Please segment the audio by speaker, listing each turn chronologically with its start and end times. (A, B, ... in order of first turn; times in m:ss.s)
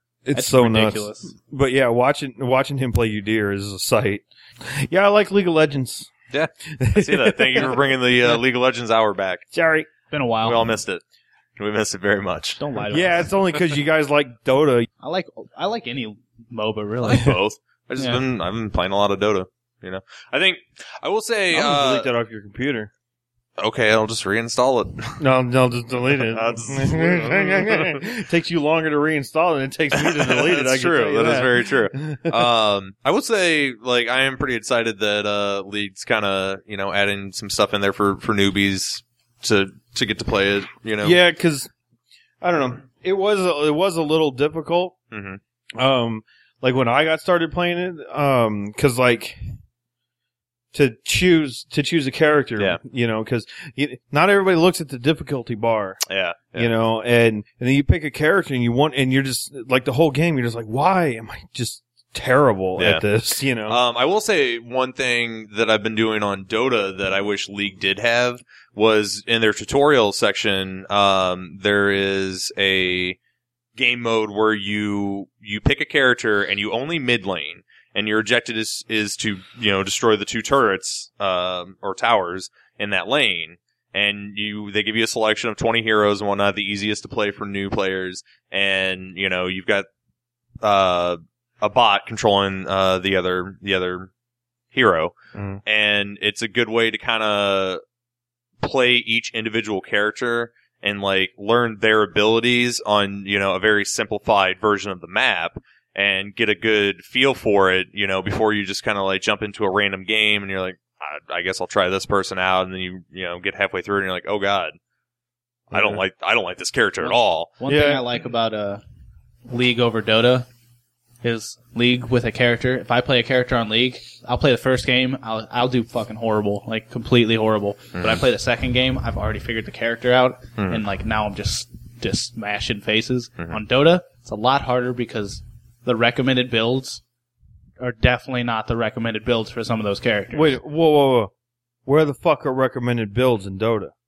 0:00.3-0:06.1 A
0:00.3-0:01.3 B
0:06.3-0:09.5 C
0:06.7-0:08.4 A
0:09.5-0:09.9 A
0:10.1-0:10.8 B
0:10.4-0:11.0 C
0:11.6-0:12.6 C
0:12.6-0:13.3 B
0:12.9-0:14.9 A
0:15.0-0:17.4 B
0:17.0-0:22.1 C
0:21.5-0:22.9 A
0:23.6-0:25.2 C
0:25.2-0:32.5 A
0:26.3-0:28.0 C
0:30.0-0:41.2 C
0:41.0-0:41.7 A
0:42.4-0:45.0 A
0:45.1-0:45.4 C
0:45.8-0:49.4 A
0:50.7-0:56.0 A
0:56.1-0:56.7 C
0:56.6-1:03.8 A
1:02.8-1:03.0 C
1:03.7-1:13.2 C
1:13.8-1:29.9 C
1:30.6-1:34.1 C
1:34.7-1:37.8 C
1:35.3-1:35.6 A
1:38.6-1:54.8 C
1:55.7-1:57.6 C
1:55.7-1:56.0 A
1:57.0-1:58.8 B
1:57.7-1:58.0 A
1:59.5-2:00.5 B
2:01.2-2:17.0 B
2:08.0-2:08.2 C
2:10.6-2:10.8 C
2:17.8-2:20.6 B
2:20.3-2:21.3 A
2:21.9-2:23.9 A